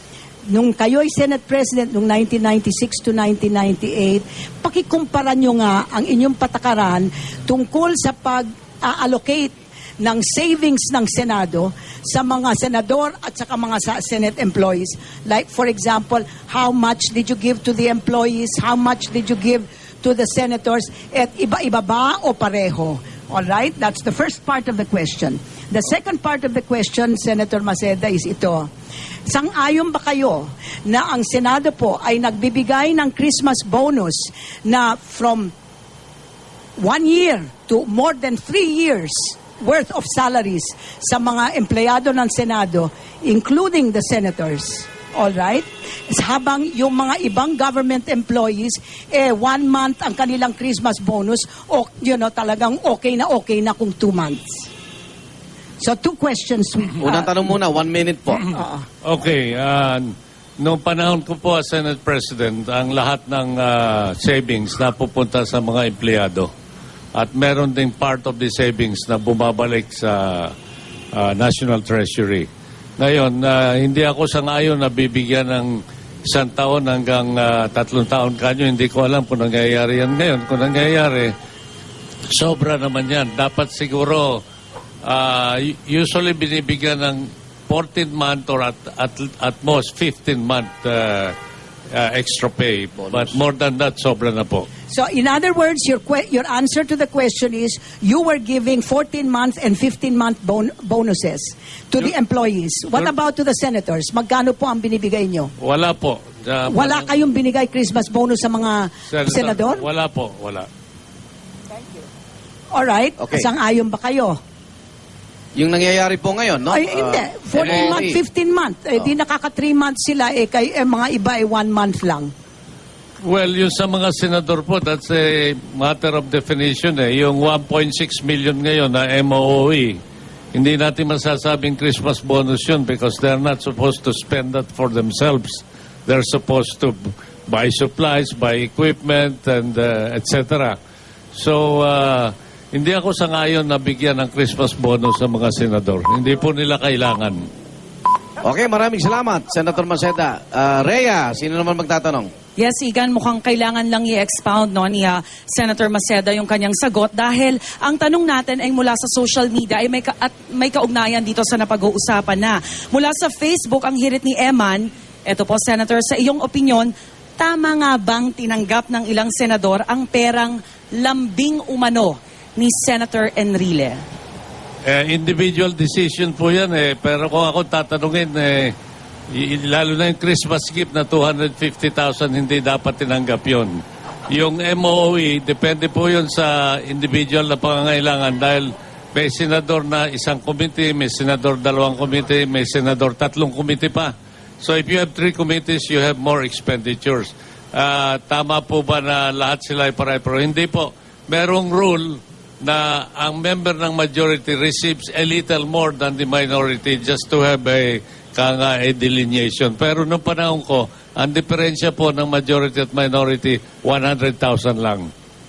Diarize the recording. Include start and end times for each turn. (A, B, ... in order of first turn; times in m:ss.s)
0:00.5-0:28.7 A
0:29.3-0:35.5 A
0:36.8-0:54.6 A
0:55.8-0:57.2 A
0:57.0-0:58.5 B
0:58.5-0:58.8 A
0:59.0-1:06.5 C
1:07.1-1:10.6 C
1:11.1-1:21.4 C
1:22.3-1:24.4 C
1:25.0-1:31.4 C
1:31.9-1:34.7 C
1:33.0-1:33.3 B
1:34.9-1:45.5 A
1:45.6-1:47.1 C
1:46.7-1:49.9 A
1:49.1-1:50.7 C
1:52.7-1:54.4 A
1:53.2-1:53.5 B
1:55.6-1:58.2 B
1:56.7-2:02.3 A
2:03.2-2:10.0 C
2:10.5-2:20.8 C
2:21.3-2:27.5 C
2:28.4-2:32.3 B
2:32.6-2:54.0 D
2:54.8-2:58.8 C
2:59.3-3:35.1 C